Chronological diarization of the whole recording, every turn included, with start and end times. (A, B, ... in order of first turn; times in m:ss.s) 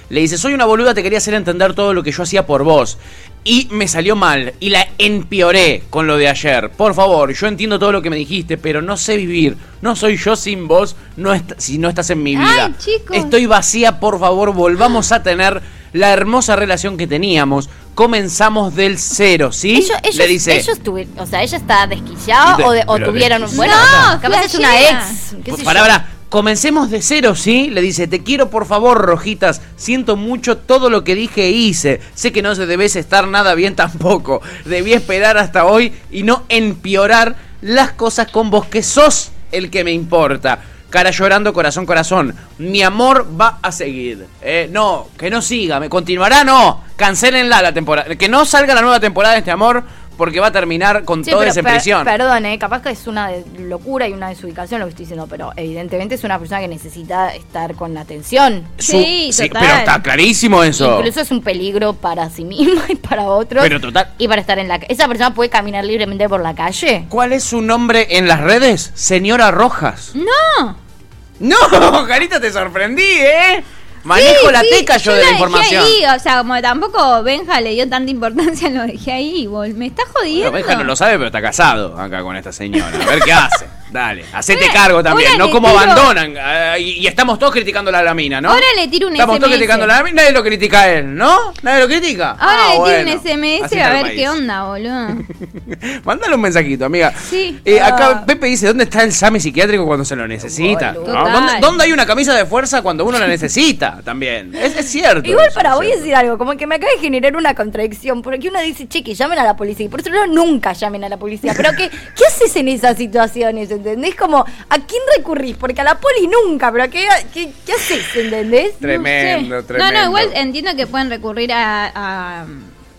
0:00.1-0:20.7 A
0:12.3-0:13.4 B
0:19.7-0:26.0 C
0:22.5-0:24.2 A
0:23.5-0:25.2 B
0:25.5-0:52.1 A
0:51.2-0:58.7 C
0:58.8-1:01.1 A
0:58.8-1:00.0 B
1:00.8-1:07.1 C
1:03.6-1:04.1 A
1:07.1-1:10.1 A
1:10.2-1:10.8 B
1:11.4-1:16.0 A
1:14.1-1:20.9 B
1:20.3-1:34.4 A
1:22.8-1:23.6 B
1:24.5-1:26.1 B
1:28.4-1:29.9 B
1:32.4-1:35.3 B
1:35.7-1:46.1 A
1:37.2-1:37.6 B
1:37.7-1:38.3 C
1:40.4-1:41.6 C
1:41.0-1:41.7 B
1:45.2-1:58.8 C
1:58.8-2:00.4 A
1:58.8-2:02.7 B